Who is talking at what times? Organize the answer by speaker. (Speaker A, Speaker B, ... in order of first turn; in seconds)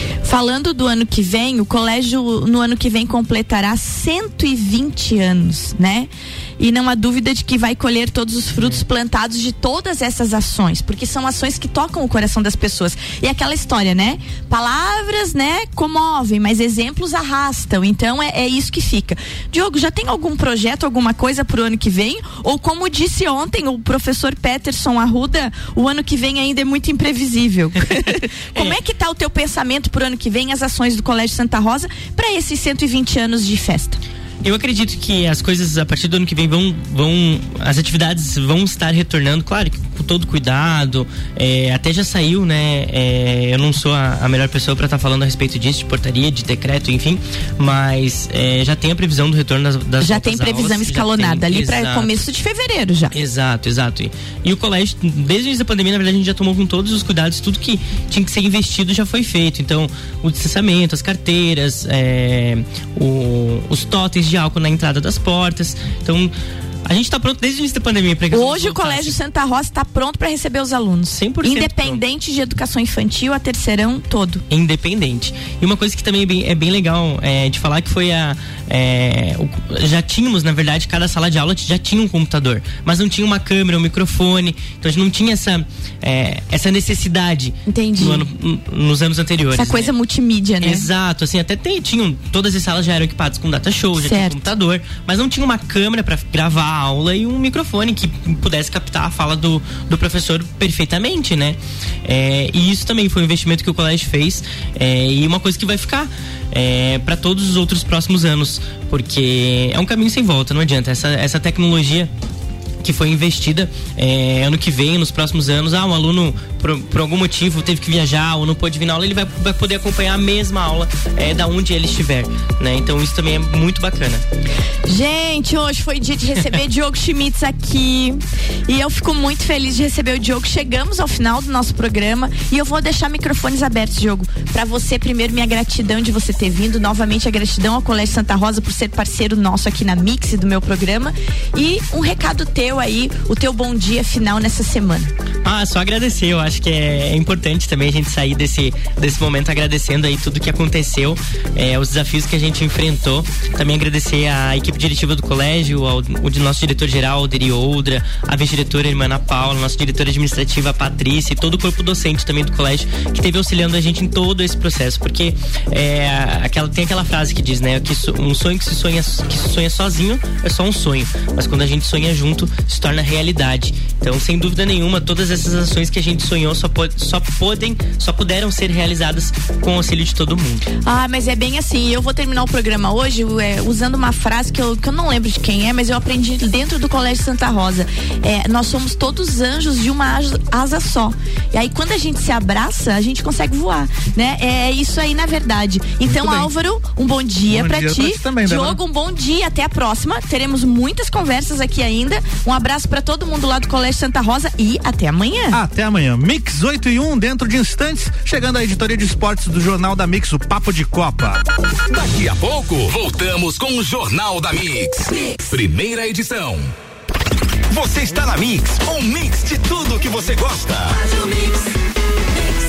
Speaker A: 0.2-34.0, 50.0-53.1, 68.3-74.4, 87.7-88.2, 89.5-90.9, 94.0-94.4, 124.9-145.1, 180.8-205.6
Speaker B: 8.5-8.8, 34.4-52.2, 53.1-66.3, 66.8-69.2, 71.2-72.0, 74.5-89.9, 90.6-112.1, 112.8-124.2, 145.4-180.7
Speaker C: 196.1-196.5, 197.5-198.8, 205.5-211.4
Speaker D: 211.9-216.7, 217.7-221.1